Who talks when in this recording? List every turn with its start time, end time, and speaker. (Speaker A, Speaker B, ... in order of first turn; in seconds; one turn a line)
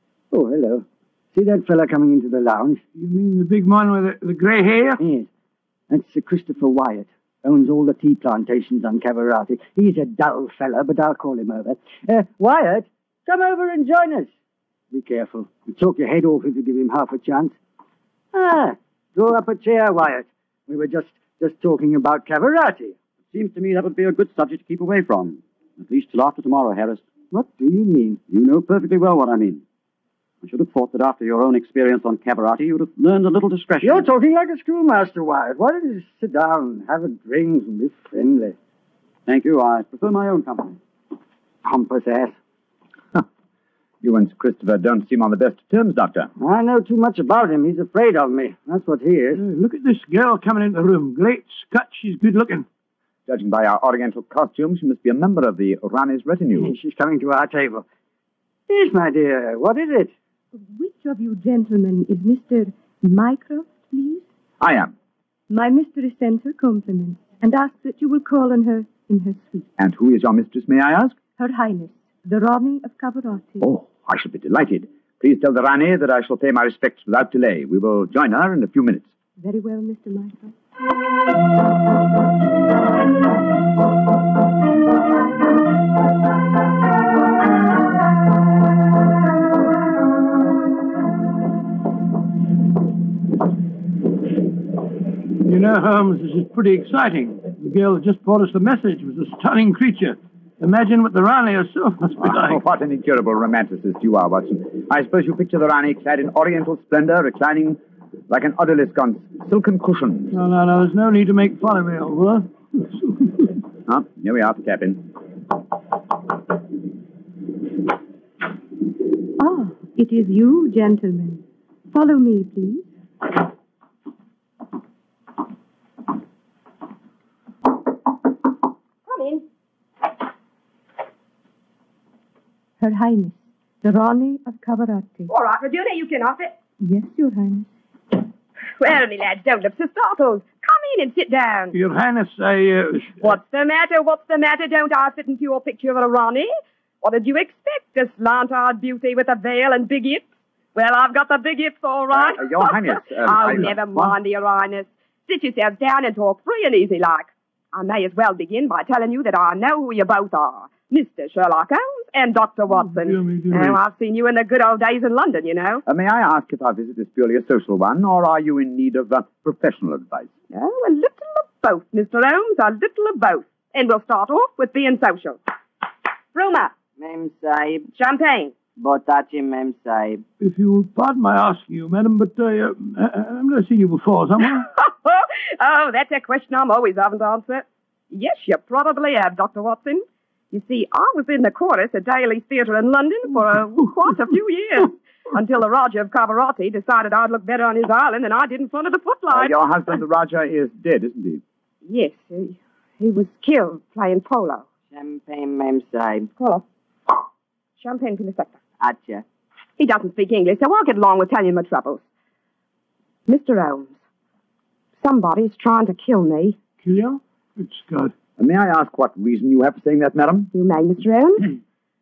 Speaker A: 0.3-2.8
Speaker B: 3.0-5.0
Speaker A: 5.0-5.3
Speaker A: 5.9-14.3
Speaker A: 14.9-17.6
Speaker A: 18.3-22.9
Speaker C: 23.3-27.0
Speaker A: 27.3-28.2
Speaker C: 28.3-29.6
Speaker C: 30.4-34.1
Speaker A: 33.8-38.6
Speaker C: 39.3-40.8
Speaker A: 41.6-42.4
Speaker D: 44.0-46.3
Speaker A: 46.4-49.4
Speaker B: 49.4-52.7
Speaker D: 53.3-56.7
Speaker A: 56.5-57.9
Speaker A: 58.7-60.1
Speaker E: 60.8-64.2
Speaker D: 64.6-64.9
Speaker E: 65.5-69.7
Speaker D: 69.8-71.2
Speaker E: 71.4-73.7
Speaker D: 73.6-79.1
Speaker E: 79.4-80.5
Speaker B: 95.4-102.6
Speaker D: 102.2-110.3
Speaker B: 110.3-113.3
Speaker D: 113.9-115.1
Speaker E: 119.4-122.9
Speaker F: 129.1-129.4
Speaker E: 132.8-135.3
Speaker F: 135.3-136.6
Speaker E: 136.8-137.7
Speaker F: 138.8-141.7
Speaker B: 141.7-143.3
Speaker F: 143.2-146.5
Speaker F: 147.0-165.8
Speaker D: 152.1-153.8
Speaker B: 163.0-163.8
Speaker D: 165.9-170.3
Speaker F: 170.5-175.4
Speaker F: 176.3-176.8
Speaker G: 177.0-177.8
Speaker F: 177.9-178.6
Speaker G: 178.8-180.2
Speaker B: 180.4-184.7
Speaker F: 184.6-199.6
Speaker D: 199.3-201.4
Speaker F: 201.9-204.7
Speaker G: 204.9-206.3
Speaker F: 206.4-206.6
Speaker F: 207.8-208.6
Speaker G: 208.8-209.2
Speaker F: 209.8-212.1
Speaker F: 213.3-213.9
Speaker F: 215.0-216.6
Speaker B: 216.8-218.1
Speaker D: 218.4-220.5
Speaker F: 220.5-221.6